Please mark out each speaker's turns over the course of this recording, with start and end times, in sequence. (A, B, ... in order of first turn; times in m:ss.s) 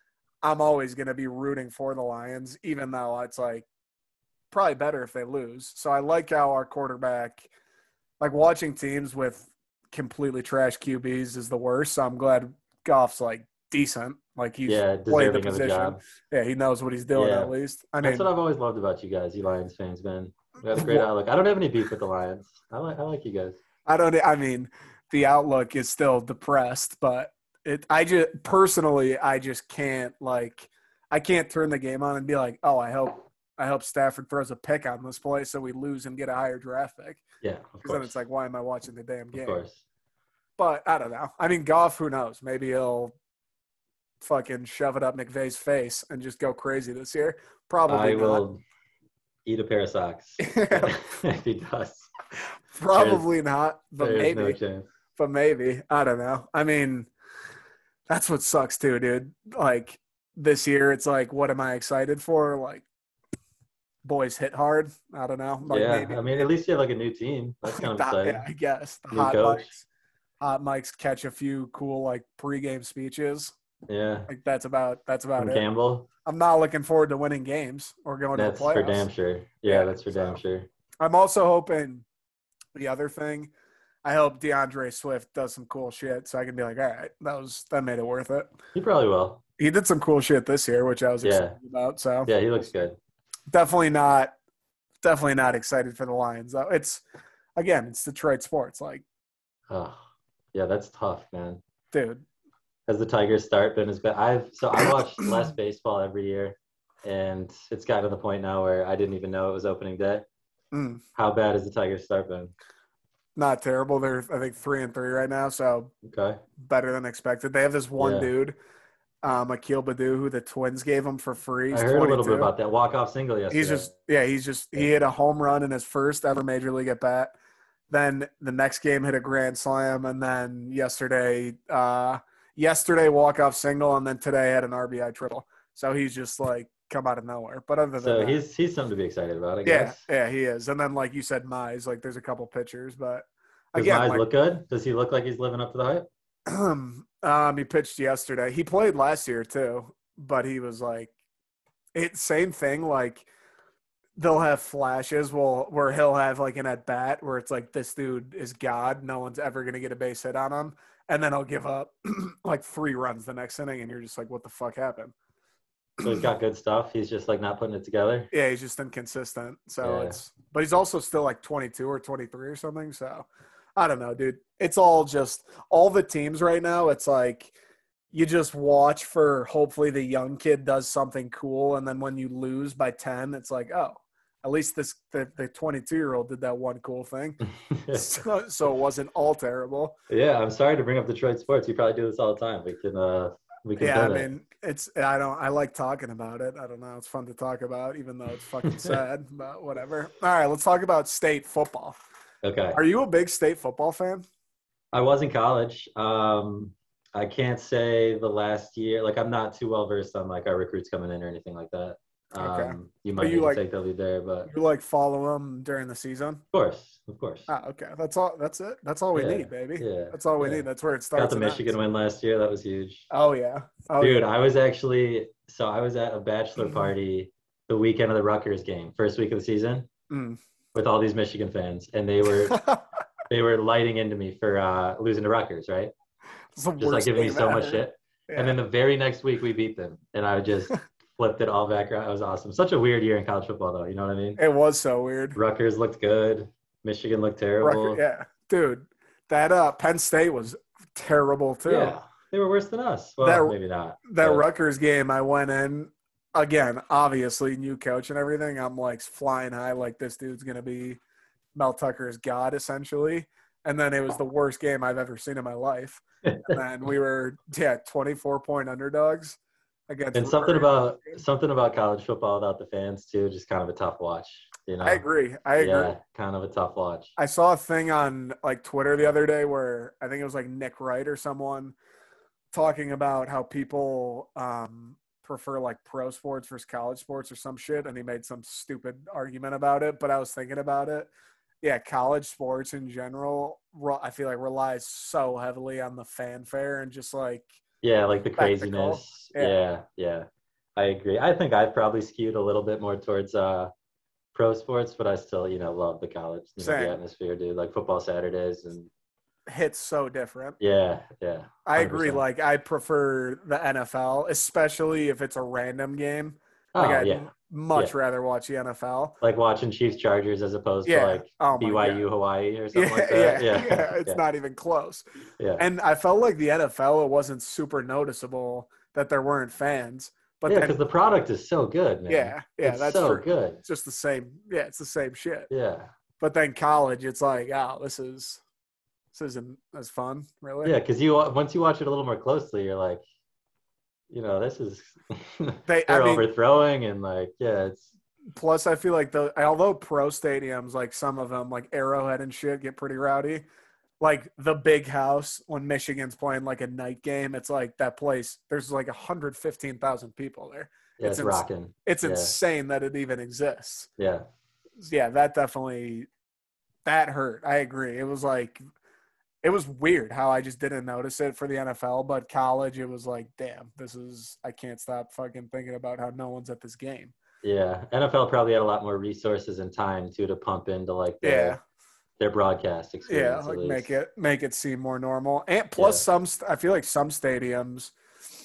0:00.4-0:03.6 A
0:04.5-0:07.5 A
0:08.2-0:18.3 A
0:14.7-0:16.0 B
0:17.1-0:23.6 B
0:20.7-0:21.0 A
0:23.8-0:37.2 A
0:37.4-0:38.2 B
0:37.8-0:39.6 A
0:39.3-0:39.8 B
0:40.6-0:43.1 A
0:44.2-0:48.4 A
0:47.9-0:48.6 B
0:49.4-0:52.1 B
0:50.4-0:51.0 A
0:52.8-0:54.6 A
0:52.9-0:53.2 B
0:54.0-0:54.9 B
0:55.1-0:57.1 A
0:58.1-1:02.8 A
1:04.0-1:06.2 A
1:05.7-1:08.4 B
1:07.7-1:09.8 A
1:09.1-1:09.7 B
1:10.4-1:13.5 A
1:13.9-1:14.3 B
1:14.3-1:15.6 A
1:15.4-1:16.1 B
1:16.2-1:19.1 A
1:18.4-1:20.7 B
1:19.6-1:20.4 A
1:21.0-1:22.0 A
1:22.7-1:23.5 A
1:24.0-1:28.5 A
1:28.7-1:29.4 B
1:29.6-1:32.7 A
1:31.2-1:31.6 B
1:32.2-1:33.0 B
1:33.5-1:34.3 A
1:35.0-1:37.0 A
1:37.6-1:39.0 A
1:39.7-1:40.0 B
1:40.5-1:41.6 B
1:41.9-1:42.2 A
1:42.9-1:50.2 B
1:50.7-1:51.0 A
1:51.1-1:52.5 B
1:53.4-1:55.9 A
1:56.0-1:56.4 B
1:56.6-1:58.6 A
1:58.0-1:58.3 B
1:59.2-2:02.5 A
2:01.7-2:03.9 B
2:03.5-2:07.3 A
2:07.9-2:18.4 A
2:18.0-2:20.0 B
2:19.6-2:24.2 A
2:23.7-2:26.1 B
2:26.5-2:31.1 A
2:31.9-2:33.3 A
2:34.2-2:45.1 A
2:46.0-2:48.3 B
2:48.3-2:57.5 A
2:49.8-2:50.2 B
2:58.1-3:09.9 A
3:07.7-3:08.1 B
3:10.1-3:14.3 B
3:13.8-3:22.0 A
3:18.6-3:18.9 B
3:22.4-3:22.8 B
3:22.7-3:24.2 A
3:24.9-3:34.5 B
3:32.4-3:33.6 A
3:34.4-3:36.4 A
3:36.5-3:37.5 B
3:37.5-3:41.7 A
3:39.1-3:43.1 B
3:43.1-3:44.3 A
3:44.0-3:49.9 B
3:50.1-3:50.4 A
3:50.7-3:52.6 B
3:52.5-3:52.8 A
3:53.3-3:55.9 B
3:56.6-3:58.6 A
3:56.8-4:04.4 B
4:04.4-4:05.4 A
4:05.3-4:08.0 B
4:07.6-4:12.0 A
4:11.6-4:14.4 B
4:13.2-4:13.5 A
4:14.0-4:21.0 A
4:21.5-4:29.4 A
4:26.2-4:26.6 B
4:29.9-4:31.2 A
4:30.1-4:35.0 B
4:34.8-4:35.9 A
4:35.6-4:37.1 B
4:37.2-4:41.8 A
4:42.5-4:51.1 A
4:51.6-4:57.5 A
4:57.8-5:03.7 B
4:58.4-4:59.6 A
5:04.3-5:08.9 B
5:06.6-5:07.0 A
5:09.5-5:10.6 A
5:10.6-5:12.2 B
5:11.6-5:19.2 A
5:16.7-5:17.9 B
5:19.2-5:24.2 B
5:20.8-5:22.0 A
5:22.7-5:25.1 A
5:25.4-5:25.6 B
5:25.6-5:30.8 A
5:30.5-5:33.6 B
5:32.1-5:35.5 A
5:35.5-5:35.9 B
5:36.2-5:38.4 A
5:39.1-5:40.7 A
5:40.6-5:43.0 B
5:44.1-5:47.9 B
5:45.7-5:46.3 A
5:48.3-5:53.4 A
5:54.0-6:03.9 A
6:01.0-6:02.3 B
6:04.0-6:04.3 B
6:04.8-6:06.1 A
6:06.8-6:08.6 A
6:09.4-6:17.1 A
6:17.4-6:21.5 B
6:21.2-6:21.6 A
6:22.2-6:23.9 B
6:23.0-6:27.9 A
6:25.8-6:26.0 B